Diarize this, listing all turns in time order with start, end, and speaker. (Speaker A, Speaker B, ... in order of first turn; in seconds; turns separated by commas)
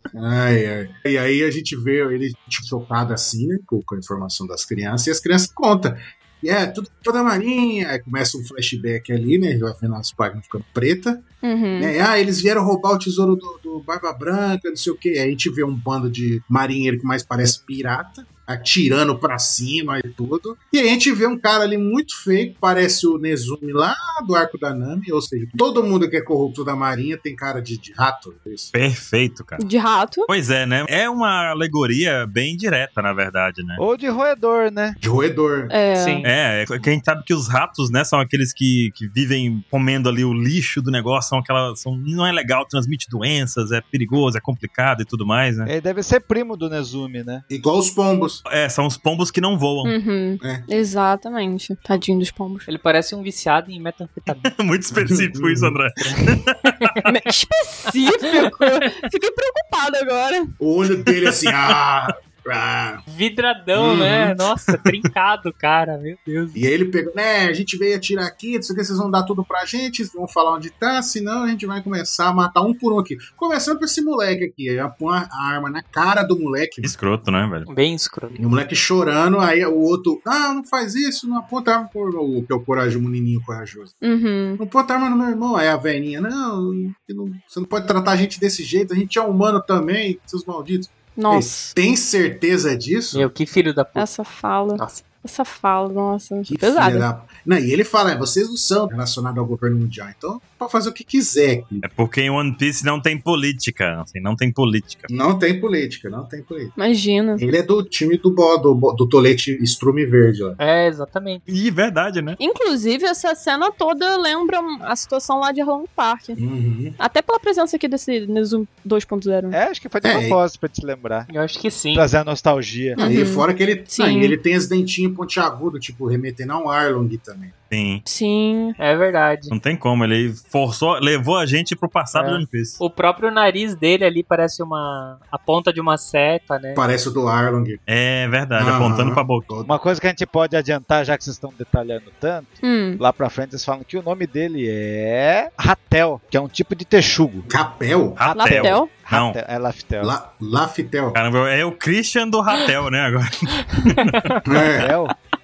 Speaker A: 0.1-11.2, Speaker B: 11.4-11.9, Speaker A: 11.8-28.7, Speaker C: 28.7-29.6, Speaker B: 29.6-30.3, Speaker C: 30.3-33.8, Speaker D: 33.8-35.0, Speaker A: 35.0-35.8, Speaker B: 35.7-36.3, Speaker E: 36.0-36.3, Speaker C: 36.2-45.7, Speaker D: 45.6-47.4, Speaker A: 47.5-48.4, Speaker C: 48.5-49.9, Speaker B: 49.8-52.7, Speaker E: 52.6-54.5, Speaker C: 54.4-56.6, Speaker A: 54.9-55.8, Speaker E: 56.1-57.0, Speaker B: 57.0-60.5, Speaker A: 60.6-63.0, Speaker C: 61.2-61.5, Speaker E: 63.1-66.6, Speaker A: 63.7-64.4, Speaker A: 66.5-76.9, Speaker C: 76.8-77.7, Speaker E: 77.7-78.4, Speaker A: 78.3-84.0, Speaker B: 84.0-84.6, Speaker A: 84.6-93.3, Speaker B: 91.2-91.7, Speaker E: 93.1-94.1, Speaker B: 94.0-97.0, Speaker A: 96.5-101.8, Speaker C: 101.8-105.1, Speaker A: 105.1-106.7, Speaker B: 106.8-107.4, Speaker A: 107.4-110.6, Speaker E: 110.6-111.4, Speaker C: 111.5-112.4, Speaker B: 112.4-116.4, Speaker A: 116.3-117.0, Speaker B: 117.0-119.6, Speaker D: 119.5-121.3, Speaker A: 120.0-120.4, Speaker E: 121.3-122.0, Speaker D: 121.9-123.0, Speaker B: 123.0-124.3, Speaker A: 123.0-127.5, Speaker C: 127.7-128.0, Speaker B: 128.1-128.8, Speaker E: 128.8-129.5, Speaker C: 129.5-132.8, Speaker E: 132.1-136.8, Speaker A: 136.7-137.8, Speaker C: 137.9-139.4, Speaker A: 138.6-139.7, Speaker D: 139.6-147.5, Speaker B: 142.6-143.0, Speaker A: 147.5-148.2, Speaker C: 148.2-149.3, Speaker B: 148.3-148.9, Speaker D: 148.3-150.1, Speaker A: 150.0-151.2, Speaker C: 151.1-154.1, Speaker E: 154.1-154.4, Speaker A: 154.4-154.9, Speaker D: 154.8-155.1